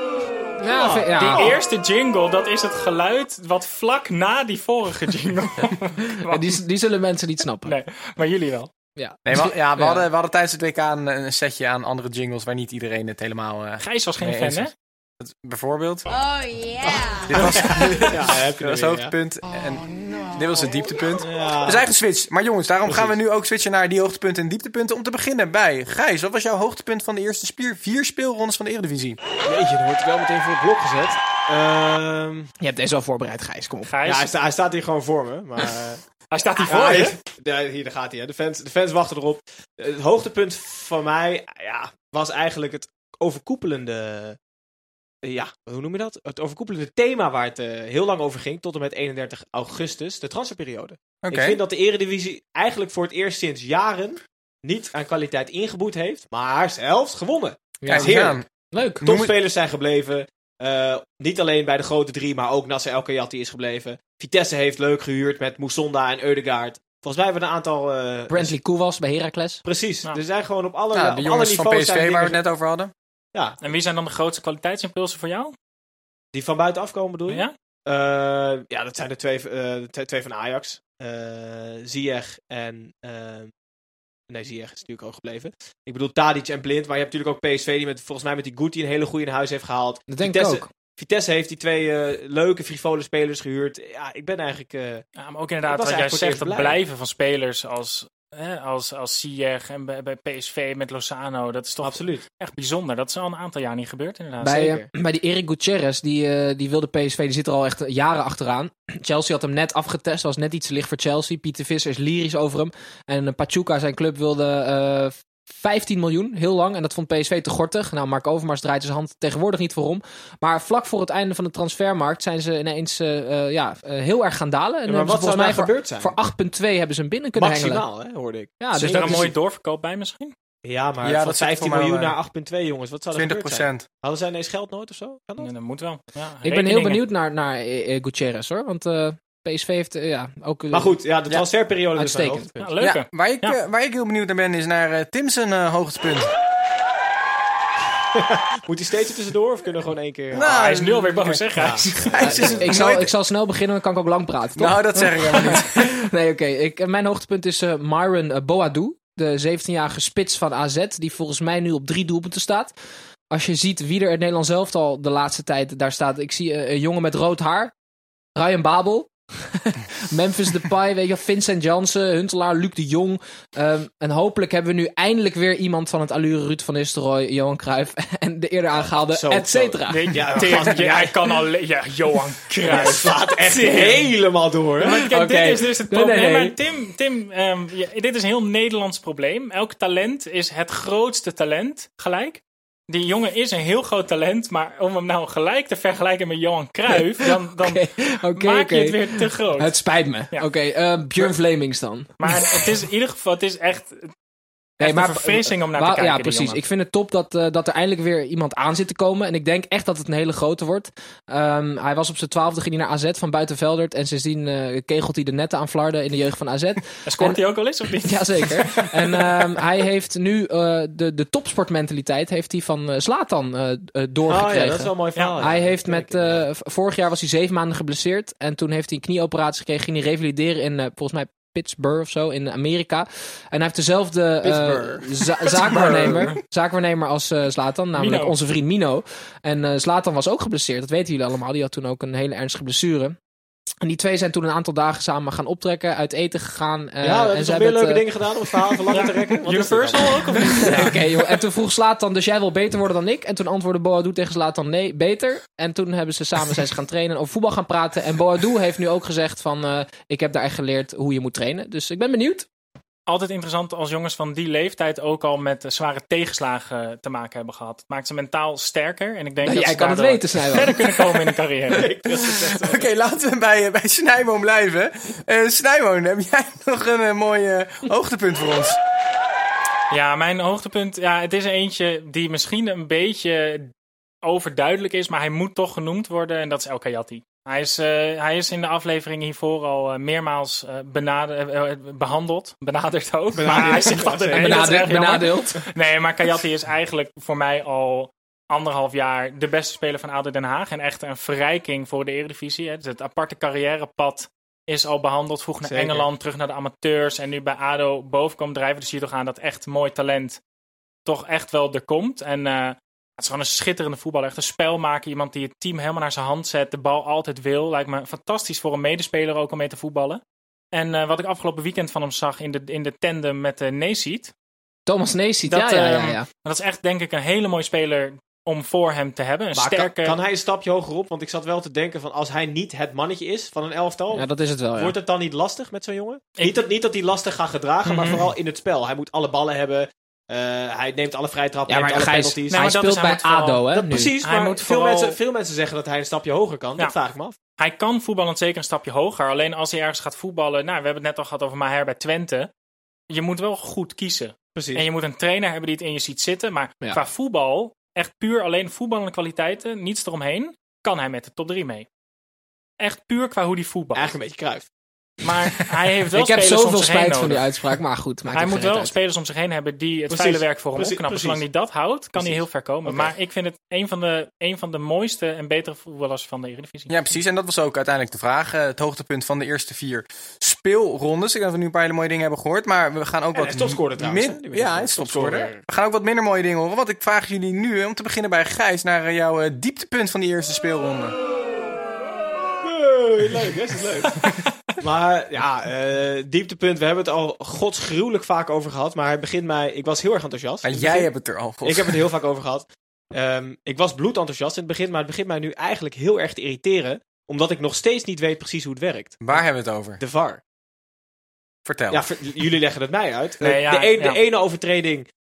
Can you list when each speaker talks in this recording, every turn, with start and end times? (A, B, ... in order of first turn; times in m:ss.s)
0:00.6-0:01.5 A
0:00.7-0:01.6 B
0:01.1-0:06.6 C
0:06.2-0:07.7 A
0:07.6-0:08.7 C
0:09.0-0:10.0 A
0:09.2-0:16.1 D
0:13.8-0:14.7 C
0:17.2-0:19.1 B
0:17.2-0:29.2 D
0:21.2-0:21.8 B
0:22.8-0:23.1 B
0:29.4-0:32.5 B
0:32.6-0:33.9 A
0:33.8-0:34.3 C
0:34.0-0:36.0 B
0:36.3-0:37.2 C
0:36.6-0:37.1 D
0:36.6-0:44.4 B
0:45.2-0:58.4 B
0:51.2-0:51.6 D
0:57.8-0:59.0 A
0:57.9-0:58.4 D
0:59.0-1:08.5 B
0:59.0-0:59.3 D
1:08.3-1:09.6 A
1:09.6-1:12.4 B
1:10.9-1:12.9 D
1:13.6-1:15.5 C
1:16.3-1:23.5 B
1:17.3-1:17.5 C
1:24.3-1:35.0 B
1:30.1-1:30.7 A
1:35.2-1:44.7 C
1:35.7-1:36.8 B
1:41.8-1:42.2 B
1:44.4-2:07.8 A
1:44.5-1:44.8 B
2:04.9-2:06.2 B
2:07.4-2:09.2 B
2:08.6-2:09.3 A
2:08.7-2:10.3 C
2:10.6-2:15.5 B
2:11.0-2:12.2 D
2:13.1-2:13.8 D
2:15.4-2:17.0 C
2:16.4-2:21.0 A
2:20.7-2:22.8 B
2:22.0-2:22.5 A
2:22.6-2:23.6 C
2:22.8-2:26.3 D
2:28.2-2:30.6 B
2:30.3-2:33.1 D
2:30.3-2:32.5 C
2:31.6-2:32.8 B
2:32.2-2:42.7 A
2:34.6-2:35.9 D
2:43.3-2:47.7 A
2:48.4-3:00.1 A
2:58.9-3:01.1 B
2:59.9-3:04.1 C
3:02.6-3:05.0 B
3:04.8-3:19.8 C
3:04.8-3:06.5 A
3:17.2-3:22.6 A
3:22.2-3:24.1 C
3:24.8-3:26.6 C
3:24.8-3:37.4 A
3:37.0-3:39.2 C
3:38.0-4:03.2 A
3:44.3-3:46.4 B
3:45.1-3:45.4 C
3:54.4-3:55.0 B
3:55.6-3:56.3 B
3:55.6-3:56.3 C
3:57.9-3:58.4 C
4:03.8-4:08.0 A
4:07.0-4:10.9 B
4:08.9-4:11.0 C
4:10.5-4:22.5 A
4:23.1-4:31.9 C
4:29.4-4:30.8 A
4:31.7-4:32.8 B
4:32.7-4:38.8 D
4:39.9-4:43.7 C
4:44.2-5:10.4 C
4:53.3-4:54.9 B
4:54.3-4:55.6 A
5:05.6-5:06.1 B
5:11.0-5:20.2 C
5:20.7-5:24.3 C
5:24.9-5:26.3 A
5:25.5-5:30.2 C
5:29.5-5:42.7 B
5:34.1-5:34.9 A
5:37.8-5:38.2 C
5:41.7-5:44.1 A
5:42.5-5:43.7 C
5:43.7-5:47.4 B
5:44.2-5:45.2 C
5:47.6-5:52.5 C
5:53.1-6:01.9 C
5:54.5-5:54.8 B
6:02.8-6:04.1 C
6:03.9-6:04.7 B
6:05.2-6:07.5 C
6:06.1-6:08.9 A
6:08.3-6:16.9 C
6:10.1-6:11.4 B
6:12.2-6:13.1 B
6:16.9-6:31.2 D
6:23.3-6:25.6 B
6:32.6-6:41.1 B
6:40.6-6:42.0 D
6:41.6-6:49.4 B
6:49.2-6:50.0 D
6:50.0-6:50.4 B
6:51.6-6:52.0 D
6:51.9-6:55.1 B
6:53.4-6:54.2 C